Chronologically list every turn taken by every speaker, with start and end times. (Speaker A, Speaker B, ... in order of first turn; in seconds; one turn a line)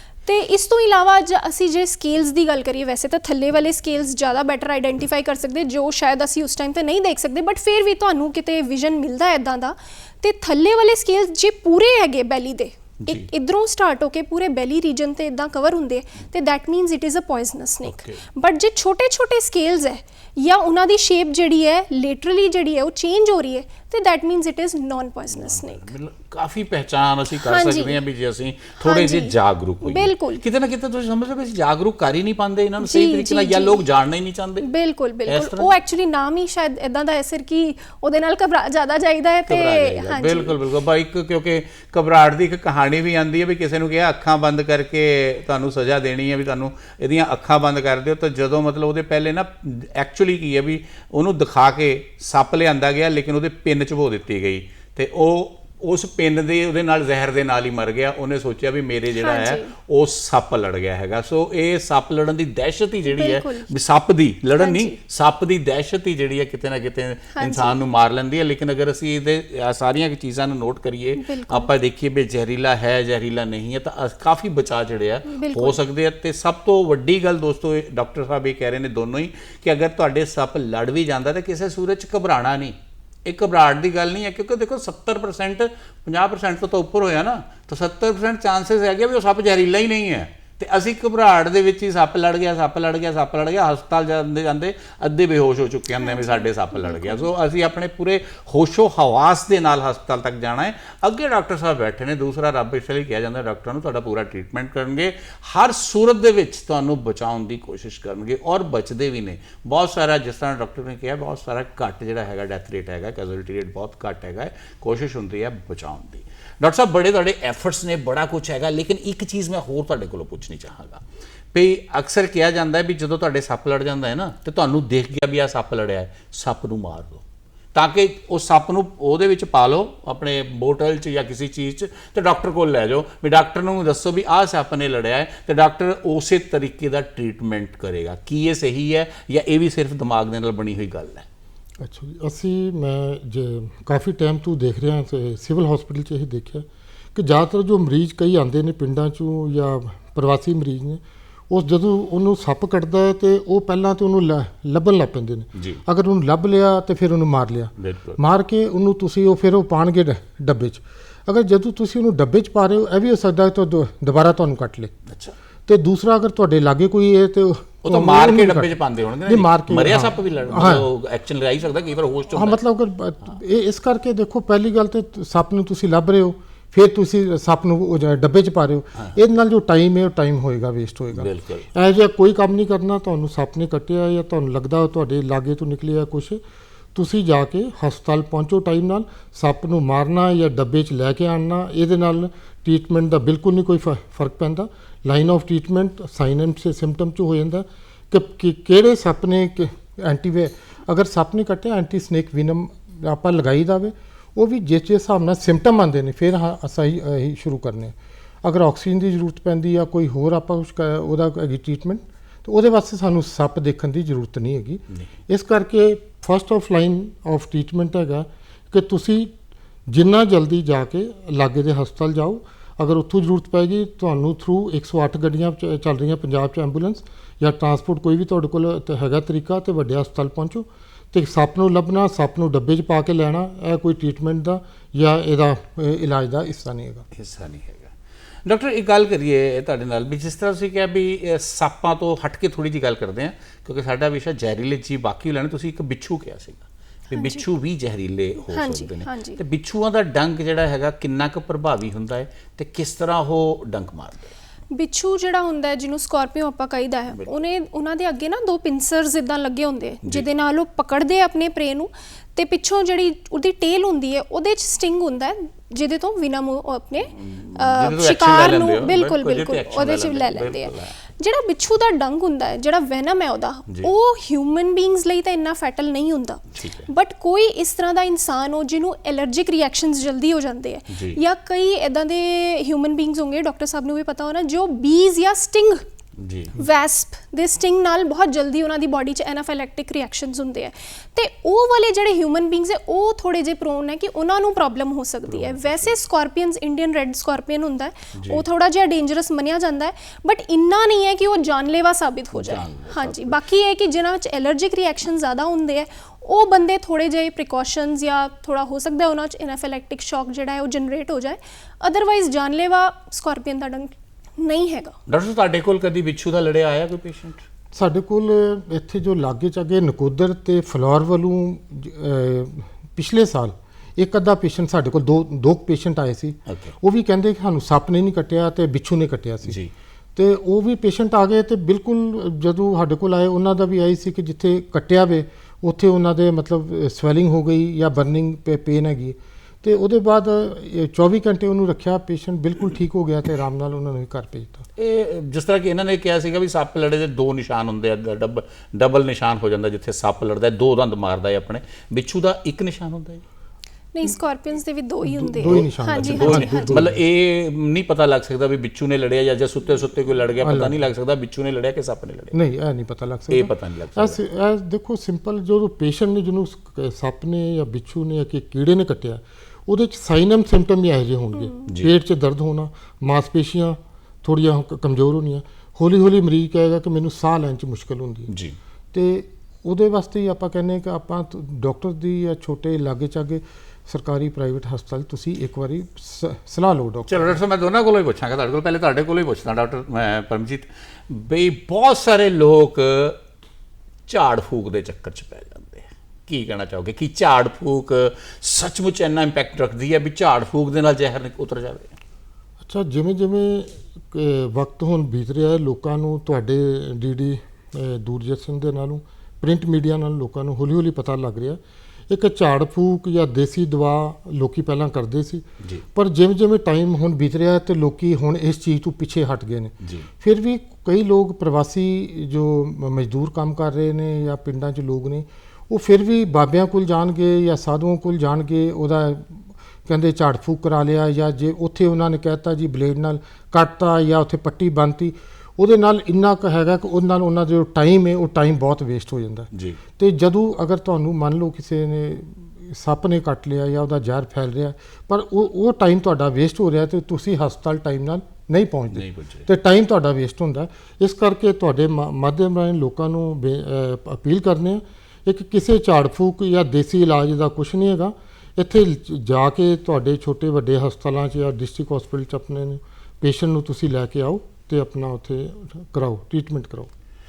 Speaker A: 0.2-25.9
Speaker B: 17.8-18.2
Speaker B: 25.3-34.7
Speaker A: 27.4-27.9
Speaker A: 28.8-30.4
Speaker A: 32.8-33.8
Speaker A: 34.6-40.5
Speaker B: 35.3-35.7
Speaker B: 39.5-141.2
Speaker A: 59.2-59.7
Speaker A: 63.0-63.7
Speaker A: 64.6-65.0
Speaker A: 67.3-67.8
Speaker A: 71.2-71.7
Speaker A: 75.3-75.8
Speaker A: 96.0-97.3
Speaker C: 141.8-164.9
Speaker B: 155.5-155.8
Speaker B: 157.8-158.2
Speaker B: 165.1-165.3
Speaker C: 165.7-168.7
Speaker B: 167.8-172.6
Speaker C: 169.2-170.9
Speaker C: 172.3-186.4
Speaker B: 181.1-181.7
Speaker C: 186.9-219.3
Speaker C: 219.9-237.1
Speaker B: 237.1-237.9
Speaker B: 238.4-254.3
Speaker A: 247.1-247.4
Speaker A: 248.5-249.4
Speaker A: 254.7-285.8
Speaker B: 267.1-270.9
Speaker B: 276.5-276.9
Speaker B: 280.9-281.2
Speaker B: 286.2-286.6
Speaker A: 286.5-314.9
Speaker B: 295.3-296.0
Speaker B: 298.1-298.4
Speaker B: 302.3-303.4
Speaker B: 315.1-317.4
Speaker C: 317.7-329.6
Speaker B: 326.5-326.8
Speaker B: 329.4-329.7
Speaker C: 330.1-344.6
Speaker B: 344.8-353.2
Speaker A: 353.9-356.8
Speaker C: 355.1-357.0
Speaker B: 355.4-362.4
Speaker C: 360.4-360.8
Speaker C: 362.3-378.3
Speaker B: 363.3-364.2
Speaker B: 371.7-371.9
Speaker B: 378.3-378.6
Speaker C: 378.9-387.3
Speaker B: 387.1-393.2
Speaker B: 394.1-401.9
Speaker C: 402.6-466.9
Speaker B: 419.8-420.1
Speaker B: 439.5-439.8
Speaker B: 448.9-449.5